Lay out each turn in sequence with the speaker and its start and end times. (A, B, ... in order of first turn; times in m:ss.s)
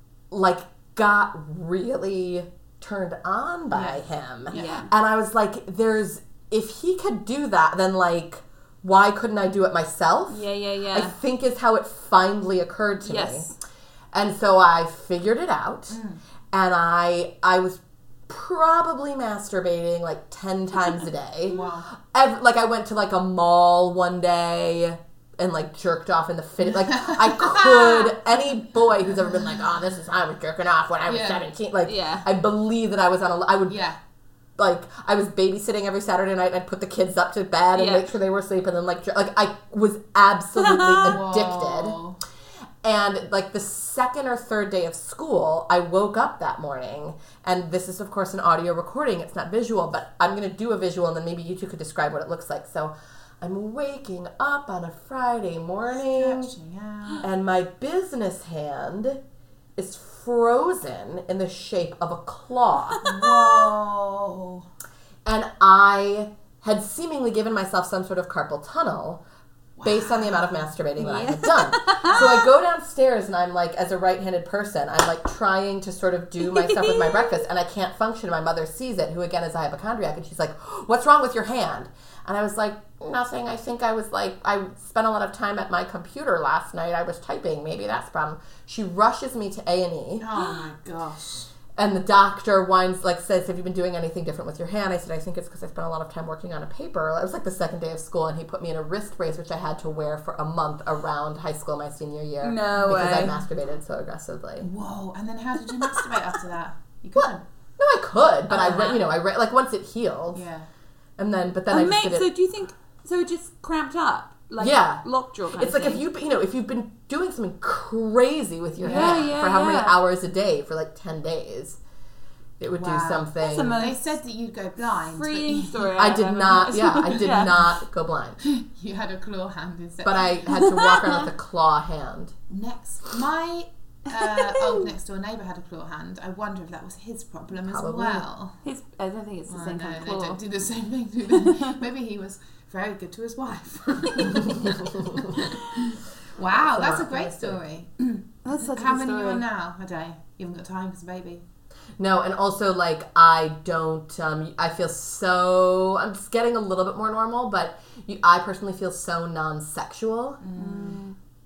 0:00.3-0:13.5 A
0:03.7-0:04.8 B
0:04.5-0:04.9 C
0:10.3-0:11.2 C
0:13.0-0:13.5 C
0:14.1-0:16.0 A
0:15.9-0:16.2 B
0:16.5-0:33.8 A
0:21.5-0:21.9 B
0:26.9-0:28.2 B
0:31.1-0:31.5 B
0:31.8-0:32.3 C
0:33.7-0:34.0 B
0:34.6-0:42.0 A
0:37.8-0:38.1 C
0:40.6-0:41.2 C
0:41.0-0:42.2 B
0:42.8-0:56.5 A
0:56.1-0:57.3 B
0:57.2-0:59.2 A
0:59.8-1:03.1 A
1:03.0-1:04.6 B
1:05.2-1:09.2 A
1:09.8-1:10.7 B
1:09.8-1:30.3 A
1:11.0-1:12.3 C
1:16.4-1:17.4 C
1:30.2-1:31.5 B
1:31.8-1:44.7 A
1:42.4-1:43.4 C
1:44.6-1:47.4 B
1:47.2-1:50.4 A
1:48.5-1:49.0 C
1:50.3-1:50.7 B
1:51.2-1:52.3 A
1:51.7-1:56.1 C
1:54.6-2:01.8 A
1:58.8-1:59.3 B
1:58.8-2:00.0 C
2:02.6-2:03.8 A
2:02.7-2:06.0 B
2:03.4-2:04.1 C
2:04.9-2:07.6 C
2:06.0-2:08.4 A
2:08.4-2:10.5 B
2:10.0-2:12.4 A
2:10.5-2:11.2 C
2:12.5-2:18.6 B
2:14.3-2:14.8 C
2:17.6-2:18.3 A
2:18.6-2:20.4 C
2:19.5-2:31.4 B
2:21.4-2:21.8 C
2:24.1-2:24.4 C
2:24.6-2:25.1 A
2:26.6-2:27.6 A
2:28.4-2:29.4 C
2:32.0-2:40.4 A
2:40.4-2:41.0 B
2:40.6-2:41.2 C